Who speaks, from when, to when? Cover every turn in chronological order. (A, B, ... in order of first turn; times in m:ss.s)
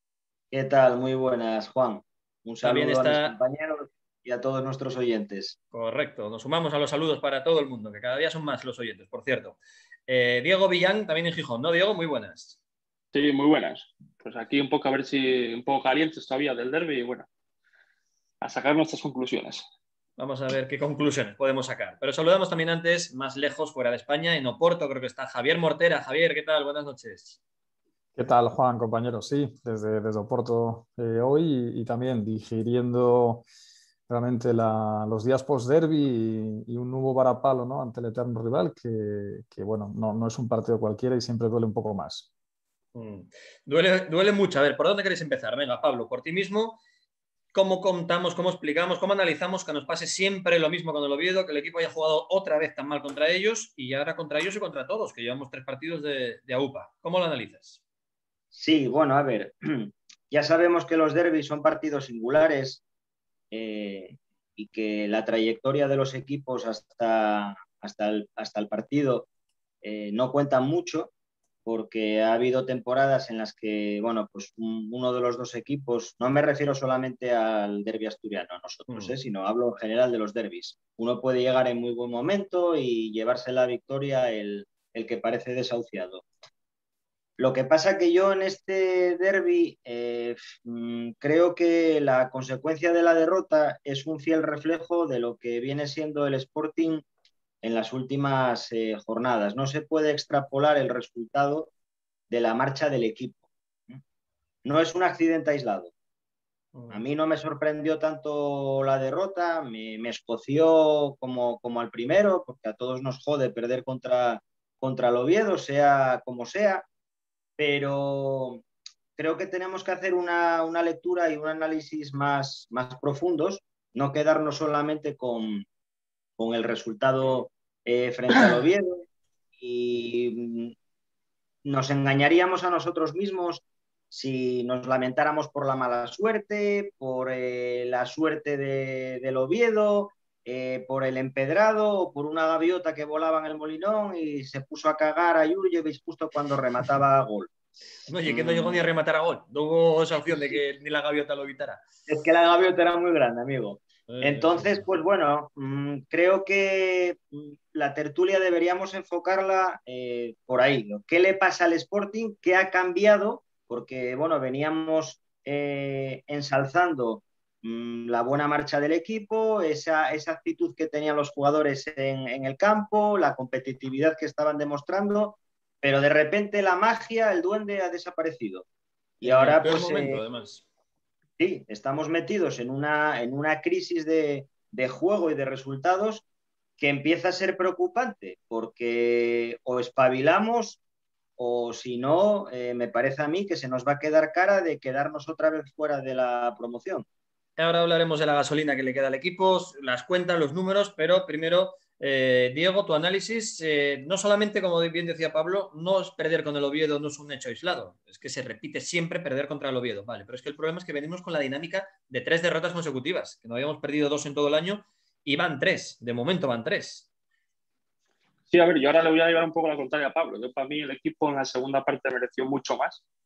0:00.5-0:05.6 A
0:02.6-0:03.4 B
0:05.7-0:12.6 B
0:13.1-0:17.3 C
0:18.4-0:19.7 C
0:20.2-0:27.4 B
0:28.2-0:33.4 D
0:34.1-0:42.3 D
0:42.9-0:46.8 B
0:47.5-0:57.8 B
0:58.5-1:02.8 A
1:03.5-1:09.3 A
1:09.8-1:11.1 A
1:11.6-1:26.2 A
1:18.9-1:19.1 B
1:27.4-1:37.0 A
1:37.6-1:41.7 A
1:42.3-1:44.0 A
1:44.6-1:45.9 A
1:46.7-1:47.0 B
1:46.9-1:56.8 A
1:57.6-1:58.6 A
1:59.2-2:05.6 A
2:06.4-2:09.0 A
2:09.6-2:10.7 A
2:11.6-2:27.5 A
2:28.1-2:31.8 B
2:28.2-2:28.8 A
2:32.1-2:58.6 A
2:34.1-2:34.8 B
2:59.2-3:00.2 A
2:59.2-3:00.6 B
3:01.4-3:06.2 A
3:06.8-3:10.8 A
3:11.4-3:17.0 A
3:17.6-3:37.1 B
3:38.5-3:43.0 C